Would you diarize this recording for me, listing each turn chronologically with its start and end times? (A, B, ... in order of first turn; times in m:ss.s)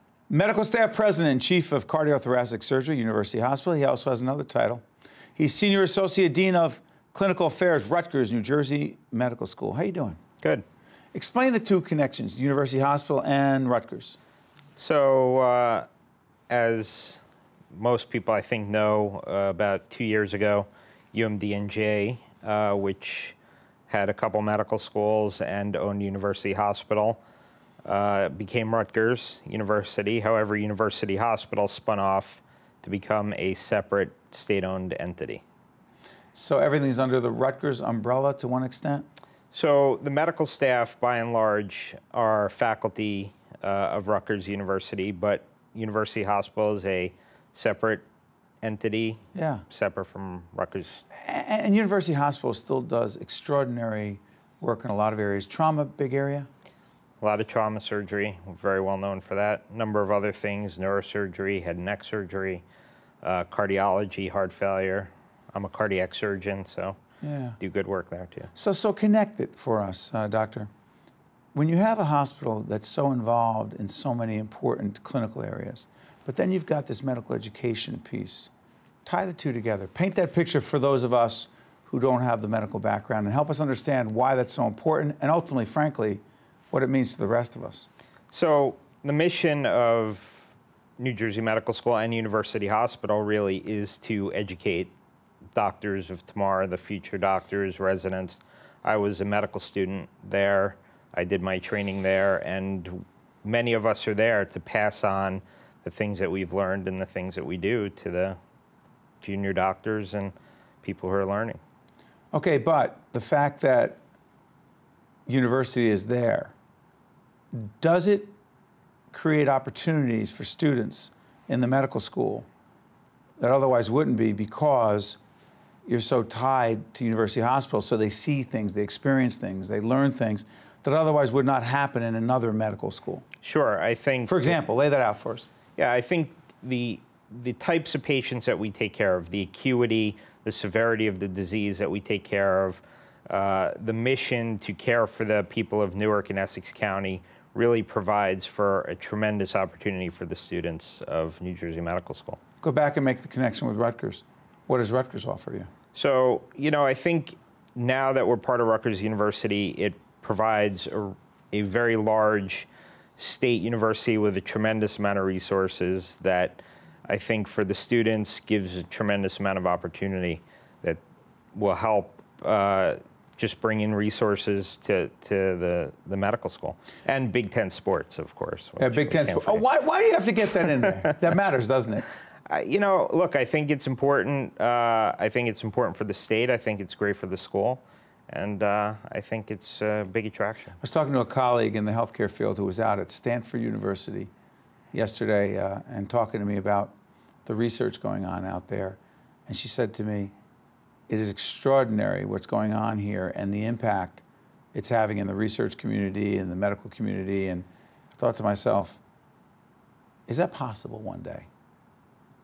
0:00.3-0:04.8 A
0:05.4-0:10.2 A
0:11.1-0:14.2 A
0:14.8-0:15.9 B
0:16.5-0:17.2 B
0:17.7-0:23.4 B
0:23.9-0:27.2 B
0:27.8-0:35.4 B
0:36.3-0:39.1 A
0:39.5-0:48.0 B
0:48.6-0:51.0 B
0:49.3-0:49.6 A
0:51.1-0:56.5 A
0:57.2-1:02.6 B
1:03.2-1:07.0 B
1:07.2-1:07.6 A
1:07.6-1:08.5 B
1:08.5-1:10.7 A
1:11.5-1:18.5 A
1:19.0-1:27.9 A
1:28.3-1:34.9 B
1:35.5-1:48.4 B
1:49.2-1:51.6 B
1:52.3-1:54.0 A
1:55.3-1:56.5 A
1:57.5-1:58.4 A
1:59.1-2:02.5 A
2:03.4-2:05.2 A
2:05.8-2:13.2 A
2:13.4-2:14.6 B
2:14.2-2:15.5 A
2:15.8-2:32.4 B
2:32.6-2:35.7 A
2:35.9-2:51.0 B
2:51.5-2:59.6 B
2:58.8-3:02.0 A
3:02.5-3:10.8 B
3:10.8-3:14.3 A
3:14.9-3:16.9 A
3:17.4-3:20.3 A
3:21.1-3:24.2 A
3:24.7-3:29.0 A
3:30.3-3:31.5 A